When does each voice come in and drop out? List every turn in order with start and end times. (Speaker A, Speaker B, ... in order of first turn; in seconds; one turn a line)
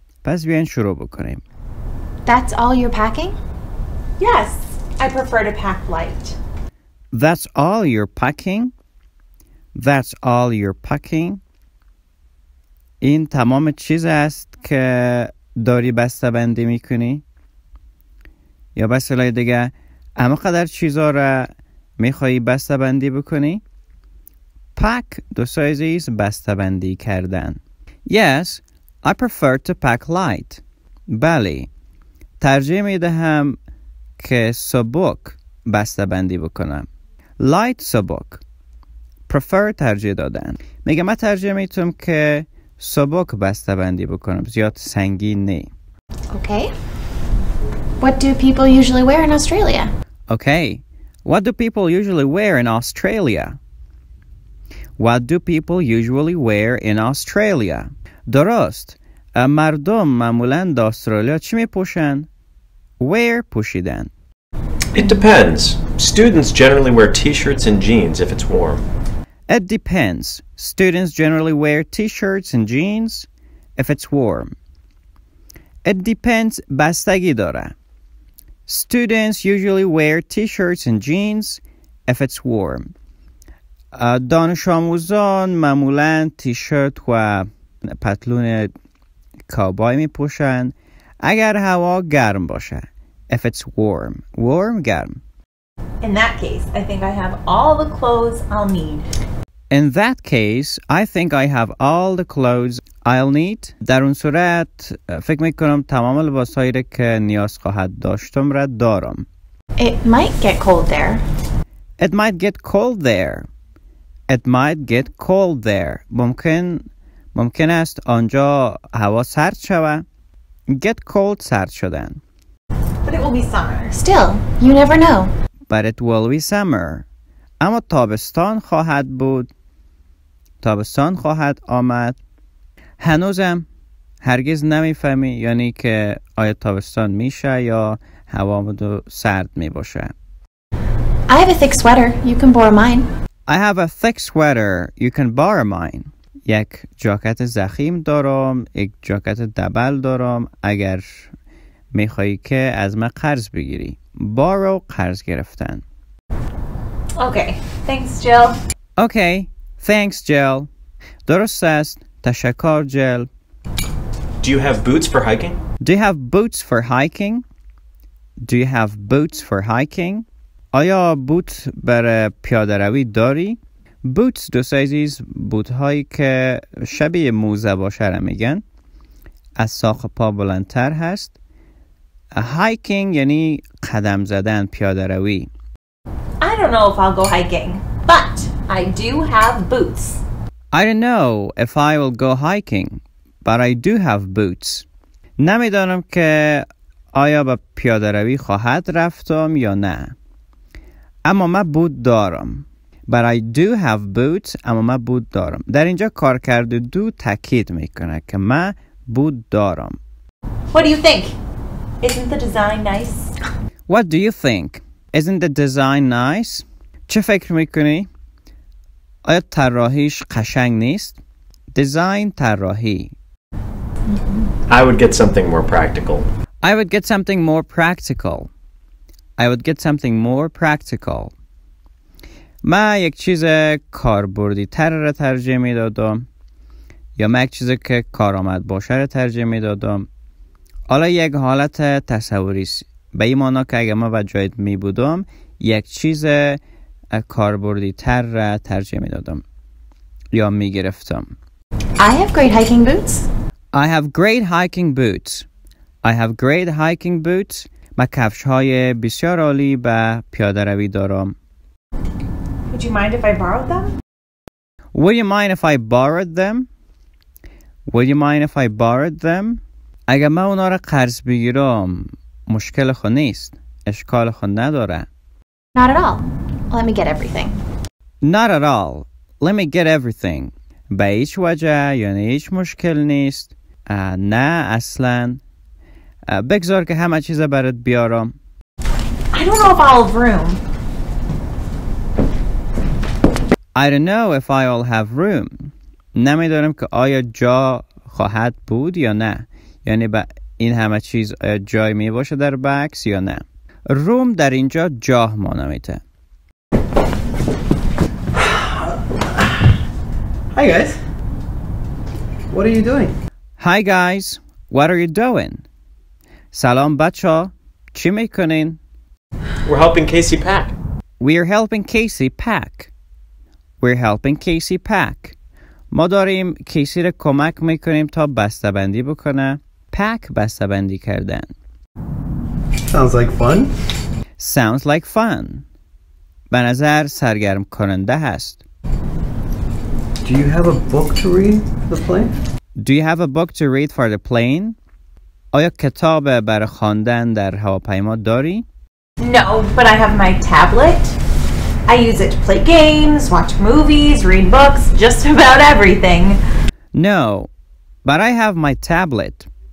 Speaker A: 0.2-1.4
Speaker B: 2.2-3.4
Speaker C: 4.2-6.4
Speaker A: 7.1-8.7
Speaker A: 9.8-11.4
Speaker A: 13.0-17.2
Speaker A: 18.8-23.6
Speaker A: 24.8-31.7
Speaker A: 32.4-33.6
Speaker A: 34.2-36.9
Speaker A: 37.4-38.4
Speaker A: 39.3-45.7
Speaker B: 46.3-46.7
Speaker B: 48.0-49.9
Speaker A: 50.3-53.6
Speaker A: 55.0-62.3
Speaker A: 63.0-64.1
Speaker D: 64.9-68.8
Speaker A: 69.5-74.5
Speaker A: 75.8-77.7
Speaker A: 78.7-82.9
Speaker A: 83.9-88.7
Speaker A: 89.5-95.2
Speaker C: 96.0-99.1
Speaker A: 99.7-109.3
Speaker B: 109.8-111.2
Speaker A: 112.0-113.5
Speaker A: 114.3-120.0
Speaker A: 120.7-122.2
Speaker C: 123.0-124.0
Speaker B: 123.9-125.3
Speaker A: 125.7-127.0
Speaker A: 127.6-129.5
Speaker A: 130.6-132.2
Speaker A: 133.0-133.7
Speaker A: 134.2-140.1
Speaker B: 141.3-143.1
Speaker A: 143.5-151.3
Speaker A: 151.9-155.8
Speaker C: 157.2-158.6
Speaker A: 159.0-160.7
Speaker A: 161.3-163.3
Speaker D: 164.4-165.6
Speaker A: 165.8-167.4
Speaker A: 168.4-178.6
Speaker A: 179.6-181.3
Speaker A: 182.3-185.5
Speaker C: 186.4-190.2
Speaker A: 190.7-194.9
Speaker A: 195.4-200.1
Speaker A: 201.2-210.0
Speaker C: 210.7-211.3
Speaker C: 212.0-213.3
Speaker A: 213.9-218.1
Speaker A: 219.2-221.2
Speaker A: 221.7-223.2
Speaker B: 224.1-224.5
Speaker D: 224.7-226.3
Speaker A: 226.6-228.5
Speaker A: 229.4-231.3
Speaker A: 232.6-236.3
Speaker A: 237.2-240.1
Speaker A: 240.9-246.6
Speaker A: 247.1-249.4
Speaker A: 250.3-251.3
Speaker B: 252.0-253.3
Speaker A: 253.7-255.5
Speaker A: 256.0-261.4
Speaker C: 262.7-263.9
Speaker A: 264.9-266.7
Speaker A: 267.9-275.1
Speaker B: 275.8-277.6
Speaker A: 278.2-285.4
Speaker A: 286.3-288.4
Speaker C: 289.3-290.6
Speaker A: 293.8-306.0
Speaker E: 308.4-309.5
Speaker E: 310.5-311.0
Speaker E: 312.5-313.1
Speaker A: 313.6-315.6
Speaker A: 316.5-318.8
Speaker D: 319.6-320.7
Speaker A: 321.2-322.9
Speaker A: 323.8-325.4
Speaker A: 325.9-331.5
Speaker E: 332.9-333.7
Speaker A: 334.4-335.6
Speaker A: 336.5-338.6
Speaker E: 340.2-342.3
Speaker A: 342.8-344.8
Speaker A: 345.5-348.6
Speaker C: 349.2-351.2
Speaker C: 351.9-356.4
Speaker A: 356.9-357.5
Speaker A: 358.1-359.5